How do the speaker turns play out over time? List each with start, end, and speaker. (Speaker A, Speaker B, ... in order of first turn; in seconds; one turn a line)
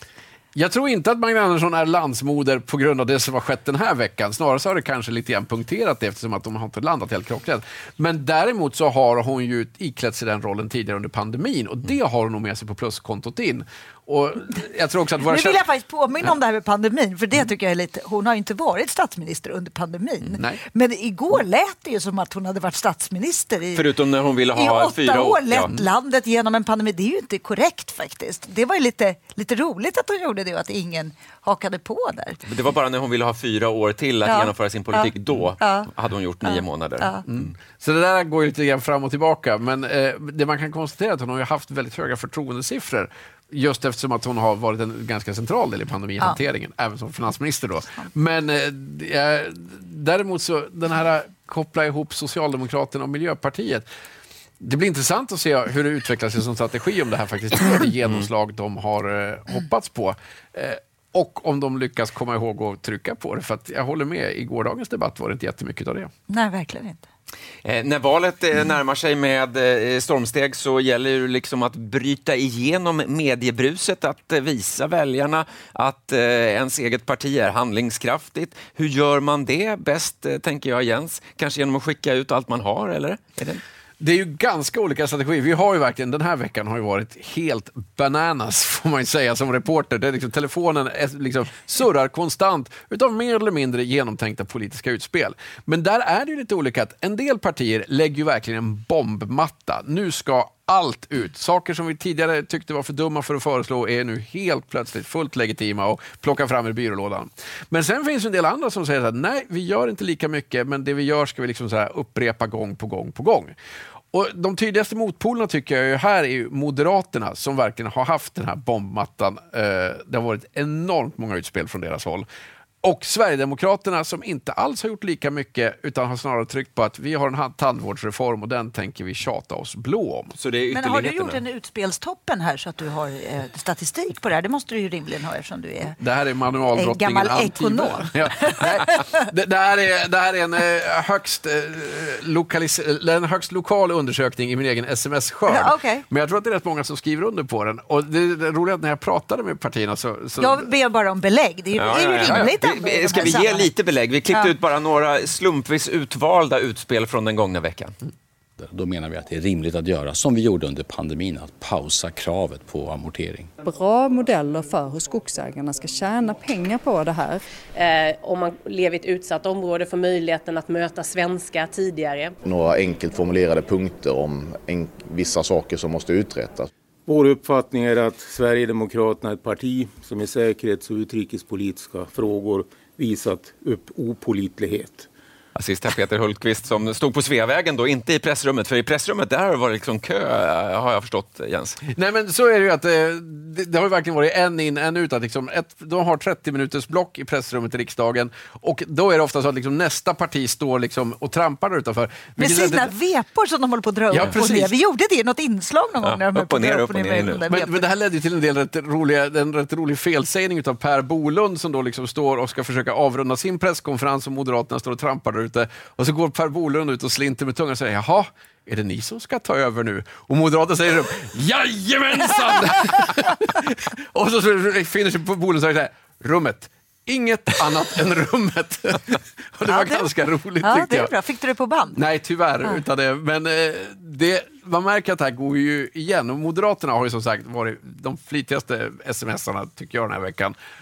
Speaker A: 0.6-15.6
Speaker B: 15.3-23.9
Speaker A: 20.3-20.6
Speaker C: 23.7-25.7
Speaker B: 24.5-32.4
Speaker C: 32.5-37.5
Speaker B: 34.2-35.9
Speaker B: 36.5-37.2
Speaker A: 37.2-53.9
Speaker A: 54.6-66.1
Speaker B: 66.3-67.0
Speaker C: 67.7-83.6
Speaker A: 84.0-113.5
Speaker A: 114.1-122.3
Speaker A: 122.8-130.4
Speaker C: 130.4-131.4
Speaker B: 130.7-136.0
Speaker A: 136.0-150.7
Speaker B: 136.8-139.0
Speaker B: 145.5-146.1
Speaker B: 150.4-153.7
Speaker C: 151.8-158.0
Speaker A: 151.9-152.5
Speaker D: 158.6-163.5
Speaker E: 163.6-167.4
Speaker F: 167.8-172.3
Speaker G: 172.4-176.7
Speaker H: 177.1-185.1
Speaker C: 185.6-191.8
Speaker A: 191.9-202.9
Speaker B: 202.4-207.9
Speaker A: 204.1-204.7
Speaker C: 206.0-207.4
Speaker A: 207.5-231.1
Speaker B: 229.7-232.0
Speaker A: 232.0-240.6